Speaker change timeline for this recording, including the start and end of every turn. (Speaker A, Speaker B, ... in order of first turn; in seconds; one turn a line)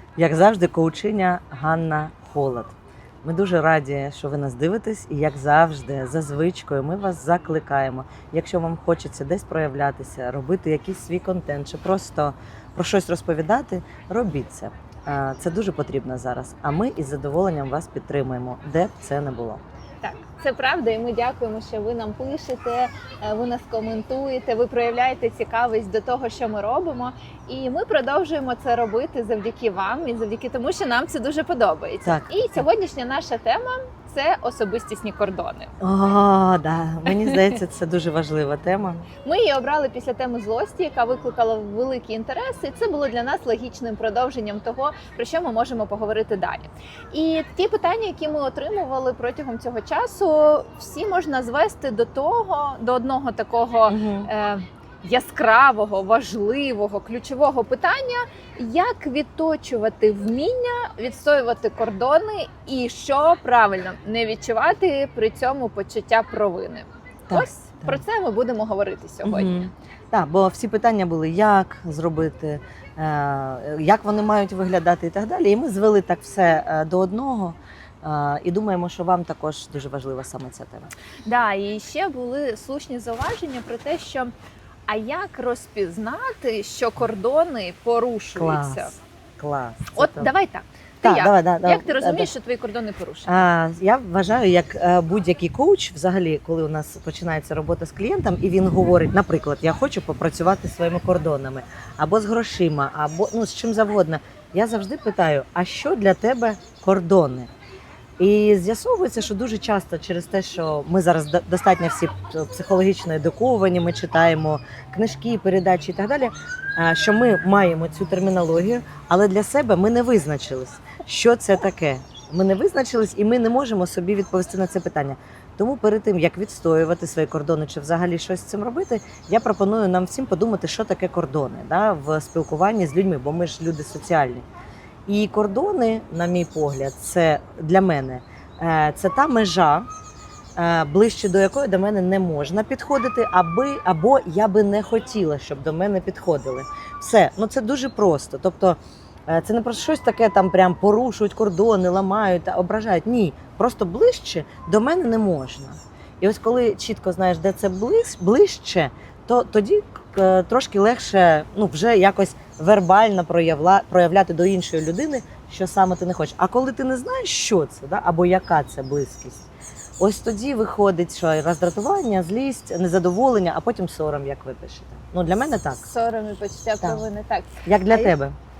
Speaker A: 0.2-19.6
Speaker B: 20.0-35.7
Speaker A: 32.0-32.6
Speaker A: 35.8-39.0
Speaker B: 37.1-37.5
Speaker B: 39.2-69.7
Speaker A: 53.9-54.3
Speaker A: 67.3-68.0
Speaker A: 69.2-80.9
Speaker B: 81.2-84.3
Speaker B: 84.9-89.0
Speaker A: 88.3-90.3
Speaker B: 89.9-93.5
Speaker A: 91.0-92.3
Speaker A: 93.3-107.5
Speaker A: 108.2-134.4
Speaker A: 135.1-139.8
Speaker A: 140.6-169.5
Speaker A: 170.0-175.8
Speaker B: 175.8-178.1
Speaker A: 177.7-178.3